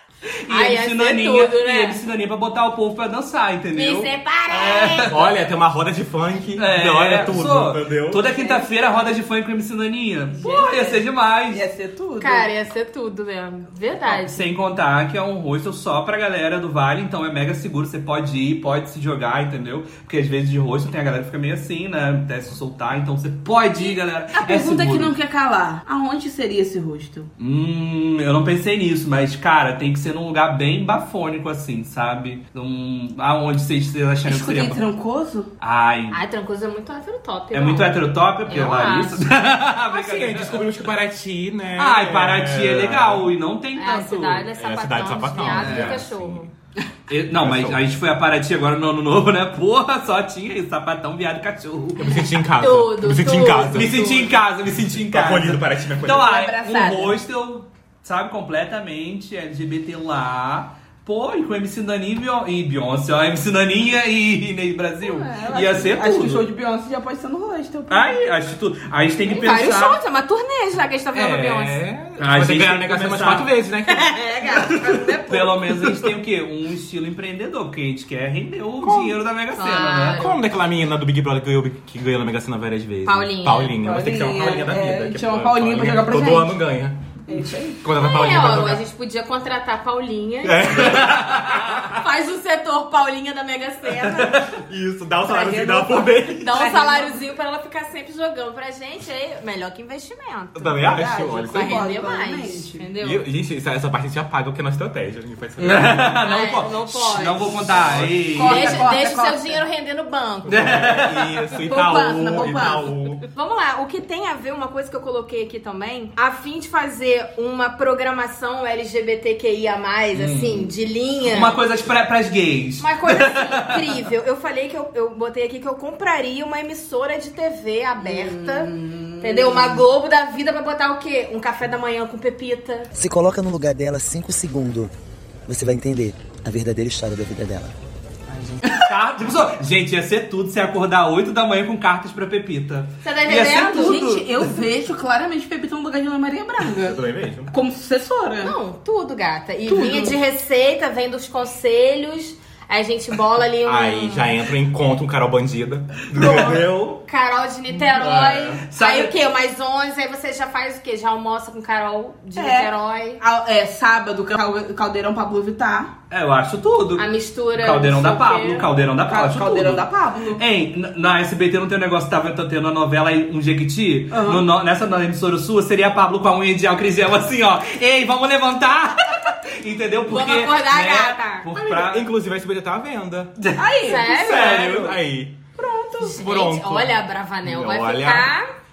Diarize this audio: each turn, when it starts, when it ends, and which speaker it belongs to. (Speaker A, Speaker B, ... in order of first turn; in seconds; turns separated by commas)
Speaker A: 0.4-5.2, Speaker B: 0.5-2.0, Speaker B: 3.7-5.1, Speaker C: 5.1-8.2, Speaker A: 6.6-11.6, Speaker D: 8.3-8.7, Speaker D: 10.4-12.5, Speaker B: 12.2-14.5, Speaker A: 14.0-25.1, Speaker D: 24.3-27.3, Speaker A: 27.4-34.8, Speaker D: 34.2-35.5, Speaker A: 35.6-36.2, Speaker B: 36.1-39.2, Speaker A: 37.5-40.7, Speaker C: 39.9-43.3, Speaker A: 41.8-44.5, Speaker B: 43.8-46.5, Speaker C: 44.5-46.5, Speaker A: 45.5-46.0, Speaker A: 47.1-52.0, Speaker C: 47.3-47.9, Speaker C: 52.0-54.1, Speaker B: 52.6-54.4, Speaker A: 53.7-66.5, Speaker C: 54.7-56.4, Speaker D: 56.1-57.2, Speaker D: 65.0-68.3, Speaker A: 67.9-70.0, Speaker B: 69.3-71.8, Speaker A: 71.1-73.5, Speaker C: 71.5-74.1, Speaker B: 73.9-75.6, Speaker A: 74.6-80.3, Speaker C: 78.8-79.2, Speaker B: 79.6-80.3, Speaker C: 80.1-87.0, Speaker B: 83.0-83.8, Speaker D: 83.8-86.6, Speaker D: 87.3-87.8, Speaker C: 87.8-88.8, Speaker B: 88.0-91.2, Speaker C: 90.4-92.0, Speaker A: 90.8-91.8, Speaker B: 91.8-94.5, Speaker A: 94.0-94.5, Speaker C: 94.5-96.6, Speaker D: 95.2-97.3, Speaker B: 96.4-103.2, Speaker C: 100.5-101.8, Speaker D: 100.8-102.9, Speaker C: 103.0-106.2, Speaker A: 105.6-108.9, Speaker B: 106.2-110.8, Speaker C: 107.7-108.2, Speaker D: 108.3-109.6, Speaker A: 110.5-111.4, Speaker C: 110.5-113.2, Speaker D: 111.5-112.9, Speaker A: 112.3-112.7, Speaker B: 113.3-121.5, Speaker A: 120.1-123.8, Speaker B: 122.8-132.9, Speaker D: 128.0-129.8, Speaker E: 132.9-134.9, Speaker E: 135.5-137.7, Speaker E: 138.3-138.6, Speaker A: 138.8-144.5, Speaker B: 143.0-144.1, Speaker D: 143.4-148.6, Speaker C: 146.8-147.5, Speaker B: 148.4-154.3, Speaker D: 149.7-150.2, Speaker C: 153.6-156.7, Speaker A: 156.1-157.0, Speaker B: 157.1-163.2, Speaker C: 157.7-158.6, Speaker A: 158.6-159.2, Speaker D: 162.4-165.9, Speaker A: 166.1-182.1, Speaker B: 167.0-168.7, Speaker D: 169.0-170.4, Speaker D: 174.1-174.5, Speaker B: 180.1-181.5, Speaker C: 181.5-183.3, Speaker A: 183.4-185.0, Speaker D: 183.6-184.3, Speaker B: 183.8-184.8, Speaker C: 184.2-185.4, Speaker D: 185.6-186.2, Speaker B: 186.0-188.5, Speaker C: 186.2-188.3